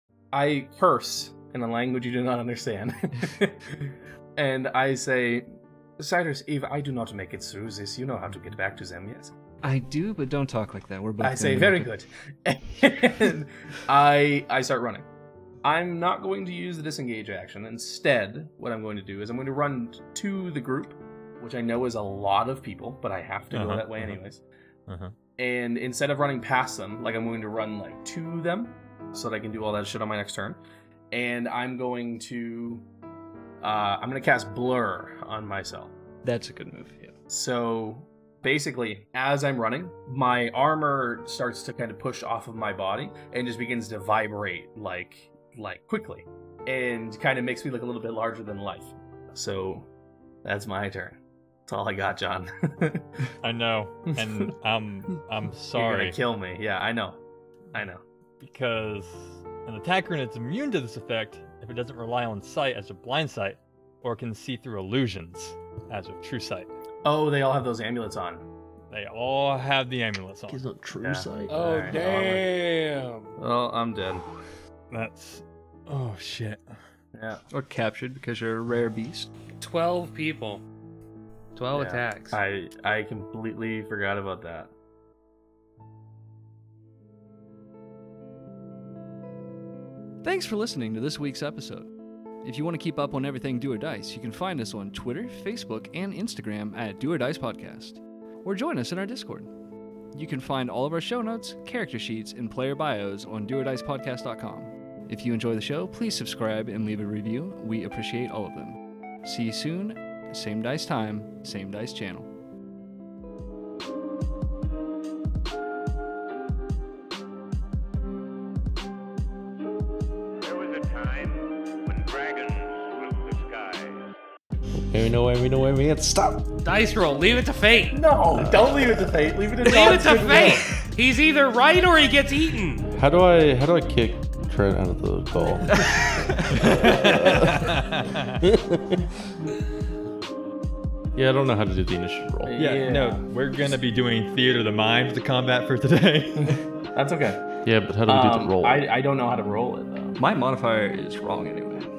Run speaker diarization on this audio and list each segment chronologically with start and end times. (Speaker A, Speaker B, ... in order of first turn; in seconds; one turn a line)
Speaker A: 0.3-5.5
Speaker A: 6.0-9.3
Speaker B: 9.6-11.9
Speaker A: 11.2-15.1
Speaker A: 15.6-24.4
Speaker C: 23.5-24.2
Speaker C: 24.9-25.1
Speaker A: 25.4-30.6
Speaker A: 31.1-32.8
Speaker A: 33.6-35.9
Speaker B: 36.2-37.1
Speaker A: 37.3-49.9
Speaker A: 50.4-53.0
Speaker C: 53.4-56.2
Speaker A: 54.1-54.5
Speaker A: 55.7-57.2
Speaker A: 57.7-58.0
Speaker C: 58.4-66.7
Speaker A: 67.0-68.4
Speaker C: 68.9-70.6
Speaker D: 70.5-72.1
Speaker A: 71.0-72.5
Speaker E: 71.5-73.3
Speaker A: 73.4-74.2
Speaker C: 74.9-76.8
Speaker A: 77.1-77.4
Speaker B: 77.5-79.3
Speaker E: 79.6-80.6
Speaker E: 81.5-82.4
Speaker A: 81.7-84.7
Speaker B: 90.2-91.9
Speaker B: 92.4-99.5
Speaker B: 100.1-112.3
Speaker F: 120.4-124.0
Speaker D: 124.8-126.5
Speaker E: 126.6-128.0
Speaker A: 127.9-130.7
Speaker D: 128.3-128.9
Speaker E: 129.6-132.9
Speaker D: 132.9-137.8
Speaker C: 136.5-138.4
Speaker D: 138.4-139.0
Speaker D: 141.2-142.6
Speaker A: 142.4-143.2
Speaker C: 142.6-146.6
Speaker A: 146.4-150.2
Speaker D: 147.6-148.9
Speaker B: 150.2-151.9